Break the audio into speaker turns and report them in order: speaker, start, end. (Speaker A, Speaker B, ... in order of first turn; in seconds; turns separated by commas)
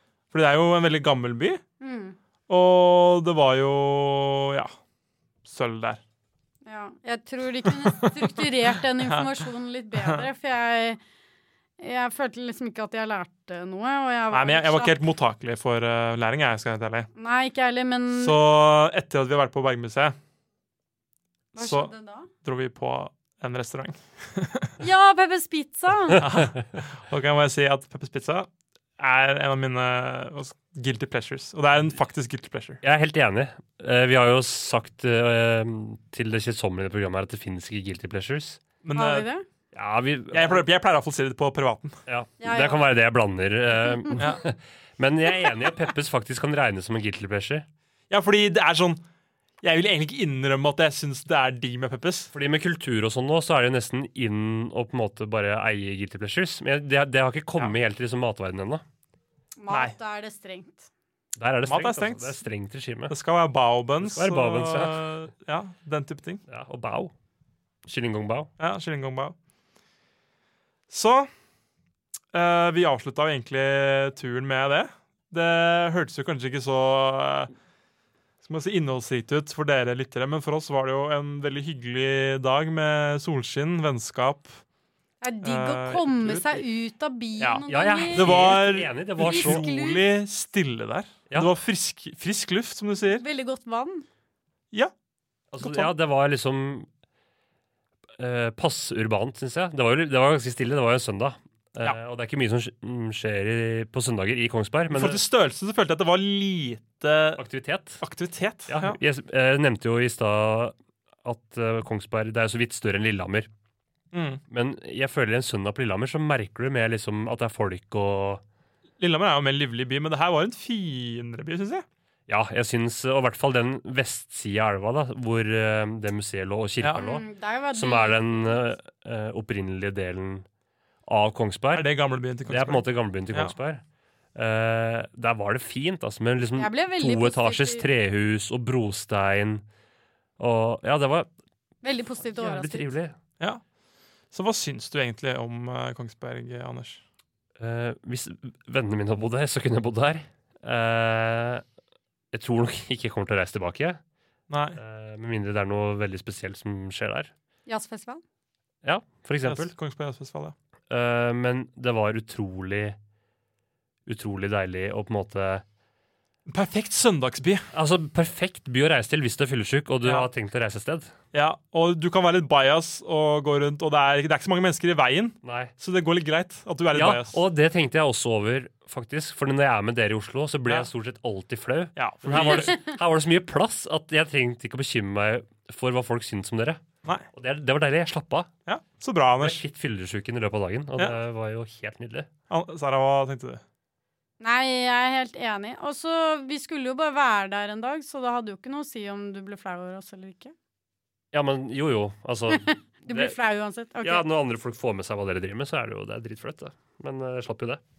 Speaker A: 0.3-1.6, Speaker B: 1.8-2.2, Speaker A: 2.5-4.7, Speaker A: 5.5-6.0, Speaker B: 6.7-11.0, Speaker A: 7.7-8.4, Speaker A: 9.0-9.4, Speaker A: 10.0-10.2, Speaker B: 11.8-14.9, Speaker A: 14.3-17.1, Speaker B: 17.2-18.4, Speaker A: 18.1-20.1, Speaker B: 21.6-22.3, Speaker A: 21.6-21.9, Speaker A: 22.4-24.7, Speaker B: 24.8-26.2, Speaker A: 26.2-32.8, Speaker C: 32.8-38.6, Speaker A: 38.8-39.3, Speaker B: 38.9-39.5, Speaker C: 39.7-40.6, Speaker A: 40.3-42.0, Speaker C: 42.1-47.7, Speaker B: 42.4-42.8, Speaker A: 44.2-44.4, Speaker A: 48.1-49.0, Speaker A: 49.6-52.3, Speaker C: 52.3-58.8, Speaker B: 59.6-60.9, Speaker C: 61.4-63.1, Speaker A: 61.7-62.4, Speaker A: 63.1-66.4, Speaker C: 64.0-65.1, Speaker C: 66.5-67.1, Speaker C: 67.9-68.5, Speaker A: 68.6-69.3, Speaker A: 70.9-71.3, Speaker A: 72.3-77.5, Speaker A: 78.4-84.6, Speaker B: 85.2-90.0, Speaker A: 85.4-86.6, Speaker A: 87.4-93.2, Speaker C: 87.7-89.7, Speaker B: 93.2-94.1, Speaker C: 95.5-96.9, Speaker A: 95.6-95.9, Speaker C: 98.2-105.2, Speaker A: 104.9-107.4, Speaker C: 107.4-108.0, Speaker A: 108.0-109.0, Speaker C: 108.7-113.5, Speaker A: 114.1-114.4, Speaker C: 114.5-118.4, Speaker A: 119.0-121.9, Speaker C: 122.3-130.5, Speaker B: 127.0-128.7, Speaker C: 131.1-131.9, Speaker A: 131.7-133.6, Speaker C: 132.5-133.8, Speaker C: 134.3-139.6, Speaker B: 136.6-137.8, Speaker C: 140.4-141.3, Speaker B: 141.8-142.9, Speaker C: 142.2-143.1, Speaker A: 144.3-147.0, Speaker C: 147.6-151.6, Speaker C: 152.3-154.0, Speaker A: 154.5-154.8, Speaker C: 154.8-157.3, Speaker B: 157.7-158.2, Speaker C: 158.8-159.7, Speaker A: 159.4-160.6, Speaker C: 160.9-163.0, Speaker C: 164.1-165.6, Speaker A: 166.5-167.7, Speaker C: 167.7-171.1, Speaker A: 170.0-170.3, Speaker A: 171.3-177.4, Speaker C: 175.4-175.7, Speaker C: 176.9-186.8, Speaker A: 182.0-182.8, Speaker C: 187.3-188.5, Speaker A: 188.7-189.6, Speaker C: 189.4-192.3, Speaker A: 192.5-193.6, Speaker B: 194.4-200.5, Speaker C: 201.3-203.3, Speaker B: 202.5-204.2, Speaker C: 204.0-207.8